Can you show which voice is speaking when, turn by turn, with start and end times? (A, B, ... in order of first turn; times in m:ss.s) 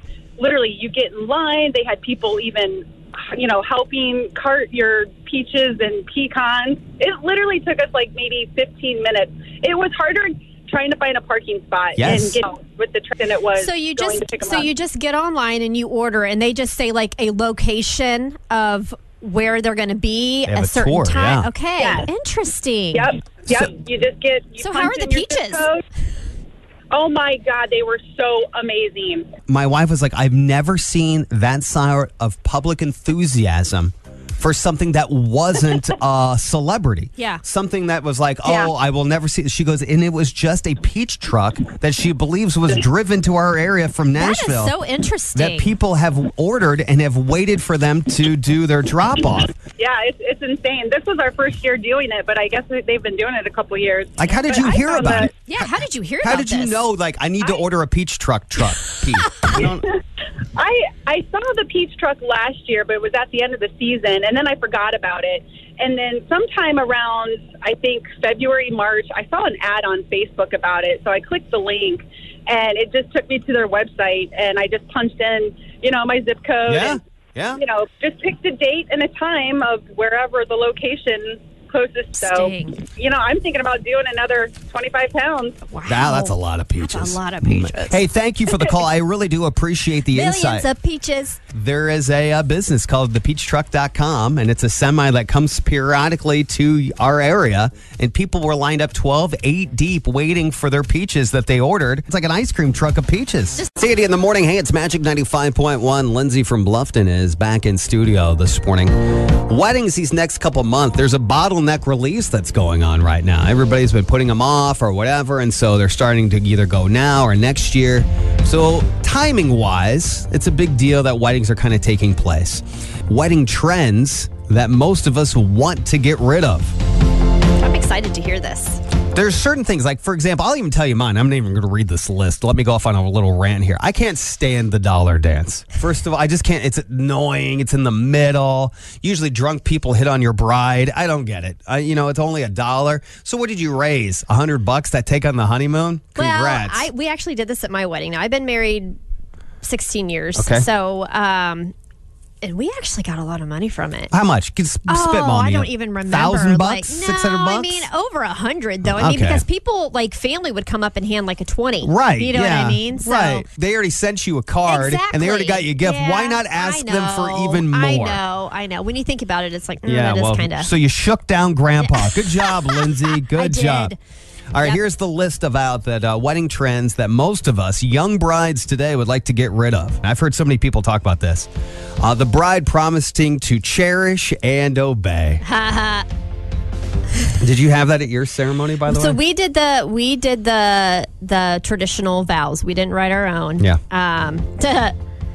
0:00.4-0:14.7 A
0:12.0-0:12.4 B
0:13.6-0:23.1 C
0:20.5-0:21.5 B
0:21.8-0:22.1 A
0:22.9-0:25.8 A
0:24.6-0:25.7 C
0:26.9-0:29.3 A
0:29.5-0:44.7 B
0:37.2-0:37.4 C
0:44.2-0:45.7 C
0:45.4-0:49.6 B
0:49.8-0:55.3 A
0:54.2-0:55.3 B
0:54.5-0:54.8 C
0:55.4-0:56.8 C
0:56.2-0:59.9 B
1:00.6-1:17.0 A
1:16.7-1:17.6 B
1:17.5-1:25.6 A
1:22.2-1:22.8 C
1:25.7-1:28.0 C
1:25.9-1:30.7 B
1:30.1-1:31.4 C
1:31.5-2:06.8 B
2:07.6-2:08.8 C
2:09.1-2:26.9 B
2:26.2-2:29.0 C
2:29.6-2:31.7 C
2:30.4-2:30.7 B
2:32.4-2:34.1 C
2:34.1-2:37.9 B
2:34.9-2:43.5 C
2:39.0-2:39.4 B
2:41.8-2:48.2 B
2:44.6-2:50.7 C
2:49.9-2:53.9 B
2:51.9-2:54.0 C
2:54.5-3:01.5 B
3:02.0-3:05.4 B
3:05.4-3:06.1 C
3:07.4-3:09.2 B
3:08.9-3:15.0 C